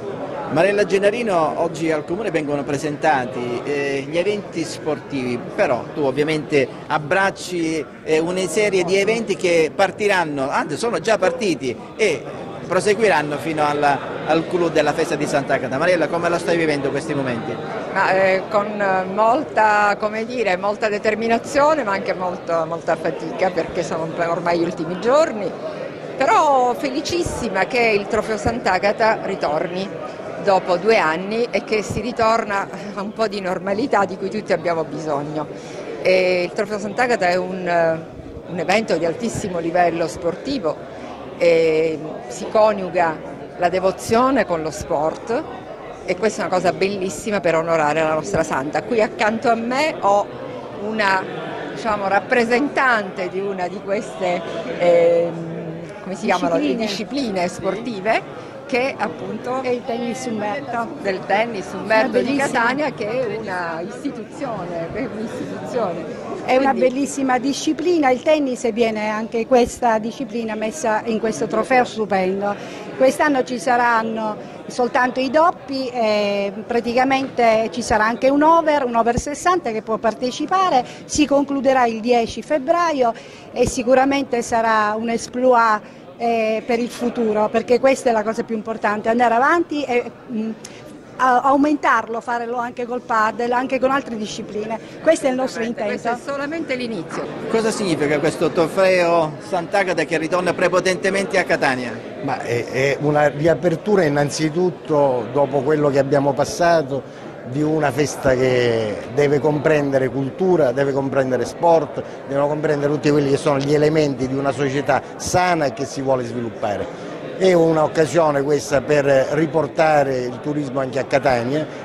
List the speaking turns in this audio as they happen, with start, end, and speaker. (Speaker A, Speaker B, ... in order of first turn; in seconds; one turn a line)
Speaker A: 0.5-17.6
Speaker B: 17.9-25.5
Speaker B: 26.2-35.5
Speaker B: 36.0-40.8
Speaker B: 41.4-45.5
Speaker B: 46.0-59.7
Speaker C: 56.2-57.0
Speaker C: 59.6-60.9
Speaker B: 60.9-66.9
Speaker C: 61.9-62.8
Speaker C: 66.5-90.5
Speaker C: 91.2-96.2
Speaker B: 95.2-97.3
Speaker A: 97.5-102.0
Speaker D: 102.2-121.7